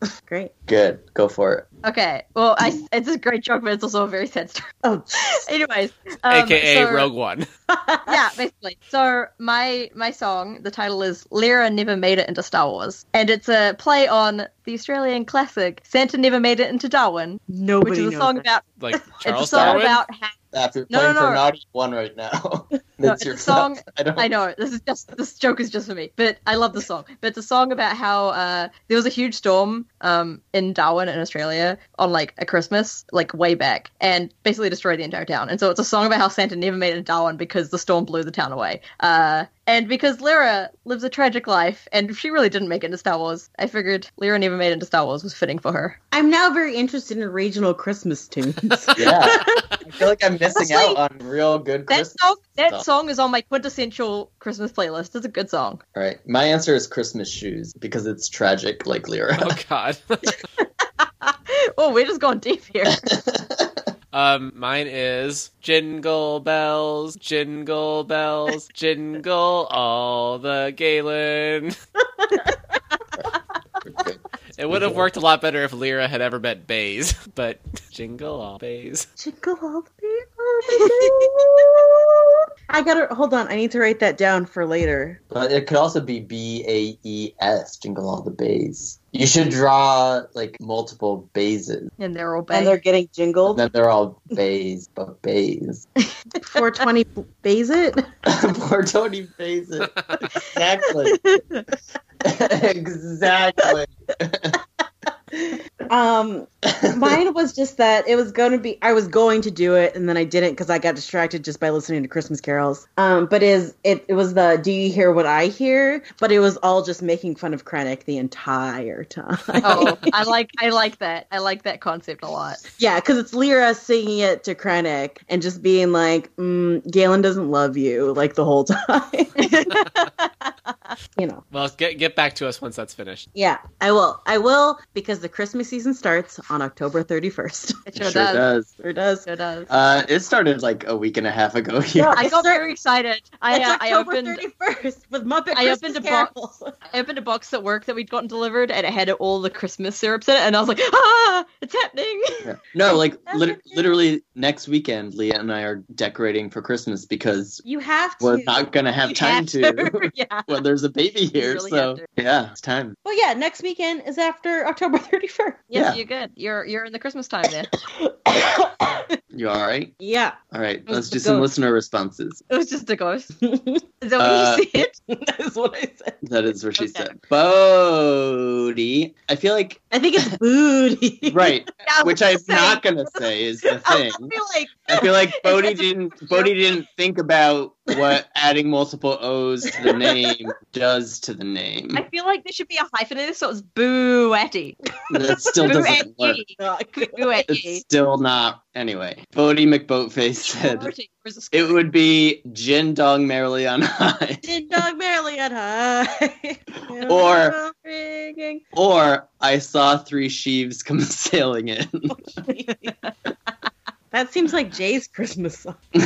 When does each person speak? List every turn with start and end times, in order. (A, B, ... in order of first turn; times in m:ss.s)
0:00.3-0:00.5 A
0:00.7-0:01.7 B
0:01.8-0:07.1 C
0:04.8-0:05.4 A
0:06.3-0:07.4 D
0:07.7-0:08.2 A
0:08.1-0:18.6 C
0:17.5-0:18.4 A
0:18.8-0:20.0 D
0:19.2-0:20.3 C
0:19.5-0:19.8 B
0:20.5-0:24.3 B
0:20.9-0:21.4 C
0:23.0-0:46.0 C
0:46.1-0:49.7 A
0:48.9-0:52.8 B
0:50.5-0:51.0 C
0:51.9-0:55.8 C
0:55.9-0:59.6 B
0:59.4-1:00.4 D
1:01.2-1:03.0 C
1:02.9-1:03.8 B
1:04.1-1:11.7 D
1:13.8-1:14.2 B
1:14.6-1:19.0 D
1:14.7-1:15.1 B
1:19.2-1:25.2 A
1:20.8-1:21.0 C
1:25.3-1:31.9 B
1:32.0-1:32.8 C
1:32.5-1:33.6 A
1:33.5-1:35.8 B
1:36.4-1:38.0 A
1:38.2-1:41.2 B
1:41.1-1:41.6 C
1:42.2-1:44.6 B
1:45.3-2:00.1 A
1:46.8-1:47.2 B
1:59.6-2:02.6 C
2:02.8-2:09.5 A
2:09.4-2:10.5 C
2:11.2-2:11.4 A
2:11.5-2:13.3 D
2:13.3-2:18.1 A
2:17.8-2:18.4 C
2:18.0-2:18.7 B
2:18.7-2:19.3 A
2:19.2-2:19.7 C
2:19.7-2:22.2 B
2:21.9-2:22.6 A
2:22.1-2:24.4 C
2:23.5-2:26.8 A
2:25.5-2:26.3 C
2:26.9-2:32.5 C
2:32.4-2:37.6 B
2:33.3-2:33.6 A
2:37.6-2:38.6 A
2:38.2-2:43.0 B
2:39.0-2:40.5 C
2:41.3-2:42.1 C
2:43.0-2:45.6 A
2:45.7-2:47.7 C
2:45.7-2:46.0 B
2:47.7-2:49.1 A
2:49.3-2:49.9 B
2:50.0-2:50.4 A
2:50.5-2:52.4 B
2:50.9-2:51.4 A
2:52.5-2:53.3 C
2:53.4-2:53.8 A
2:54.0-2:54.9 C
2:54.2-2:54.7 B
2:55.1-2:56.2 A
2:56.2-2:59.8 B
2:56.8-2:57.1 C
2:59.9-3:01.6 A
3:01.2-3:04.3 B
3:01.8-3:03.2 C
3:03.8-3:06.5 C
3:04.9-3:12.0 B
3:09.7-3:10.3 A
3:11.9-3:14.8 C
3:15.1-3:15.8 A
3:15.1-3:16.4 B
3:15.6-3:17.8 C
3:16.6-3:17.4 A
3:17.5-3:20.9 B
3:20.4-3:21.8 C
3:21.5-3:24.4 B
3:24.4-3:28.6 A
3:26.9-3:27.6 B
3:28.7-3:32.3 B
3:32.1-3:32.9 A
3:34.1-3:35.8 A